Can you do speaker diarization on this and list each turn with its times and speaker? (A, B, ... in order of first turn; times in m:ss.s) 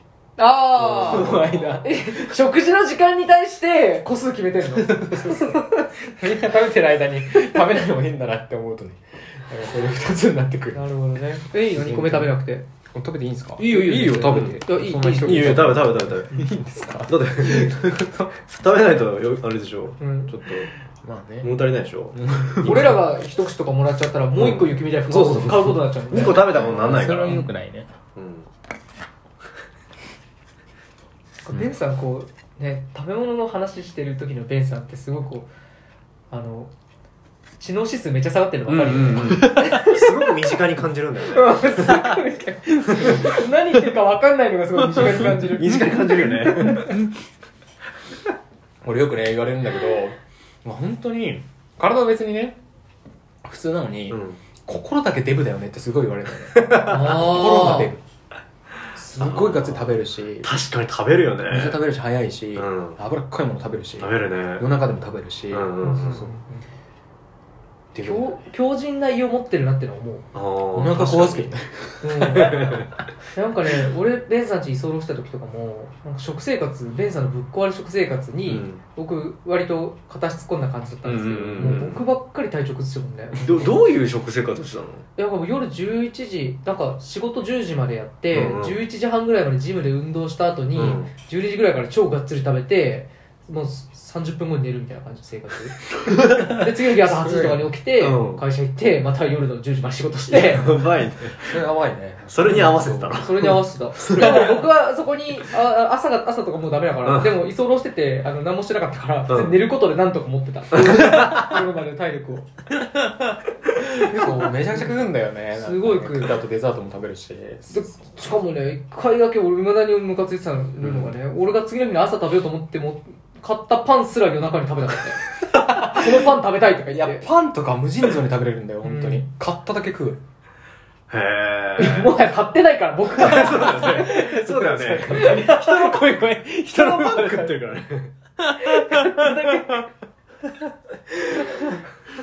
0:00.4-0:05.9 A
0:00.8-0:01.8 B
0:00.8-0:02.4 C
0:04.6-0:12.4 C
0:10.7-0:12.6 A
0:12.9-0:18.3 C
0:13.6-0:15.6 A
0:14.1-0:14.6 B
0:15.2-0:16.4 B
0:17.0-0:17.8 B
0:18.4-0:20.7 B
0:20.0-0:20.3 A
0:20.8-0:21.6 C
0:21.4-0:22.9 B
0:22.1-0:23.0 C
0:22.6-0:27.4 A
0:24.3-0:27.4 B
0:26.1-0:27.9 C
0:28.2-0:28.5 B
0:31.4-0:35.5 A
0:36.3-0:36.7 A
0:37.6-0:40.3 A
0:38.7-0:42.0 B
0:39.3-0:39.8 C
0:41.3-0:46.9 A
0:42.8-0:43.4 C
0:44.9-0:47.1 C
0:45.4-0:46.9 B
0:48.8-0:52.6 C
0:53.4-0:58.0 C
0:54.1-0:54.4 B
0:56.6-0:57.3 B
0:56.9-0:57.9 A
0:58.9-1:00.5 C
0:59.2-1:01.8 B
1:01.5-1:06.6 C
1:02.5-1:03.0 B
1:04.0-1:04.7 B
1:05.5-1:06.2 B
1:05.8-1:06.4 A
1:07.9-1:08.4 C
1:08.0-1:10.3 A
1:10.3-1:11.5 B
1:10.7-1:12.9 C
1:12.0-1:12.7 A
1:12.3-1:12.9 B
1:13.3-1:23.9 A
1:18.4-1:18.8 B
1:21.0-1:22.0 B
1:23.3-1:25.0 B
1:25.2-1:40.7 A
1:28.3-1:28.8 B
1:30.7-1:31.1 B
1:36.1-1:37.8 C
1:38.0-1:38.4 B
1:40.3-1:41.4 B
1:41.4-1:44.7 C
1:42.3-1:44.2 B
1:43.1-1:52.5 A
1:47.0-1:47.4 B
1:49.3-1:49.6 B
1:50.8-1:51.5 B
1:53.9-1:58.1 C
1:54.2-1:54.9 A
1:55.5-1:56.4 A
1:57.7-2:07.3 A
2:00.8-2:01.2 B
2:05.5-2:06.3 C
2:06.9-2:10.2 C
2:08.8-2:09.2 A
2:11.1-2:12.1 B
2:11.8-2:14.2 A
2:13.1-2:16.1 B
2:13.4-2:17.6 C
2:15.1-2:15.6 A
2:16.6-2:18.1 B
2:18.4-2:19.8 C
2:18.7-2:19.7 A
2:21.3-2:21.7 C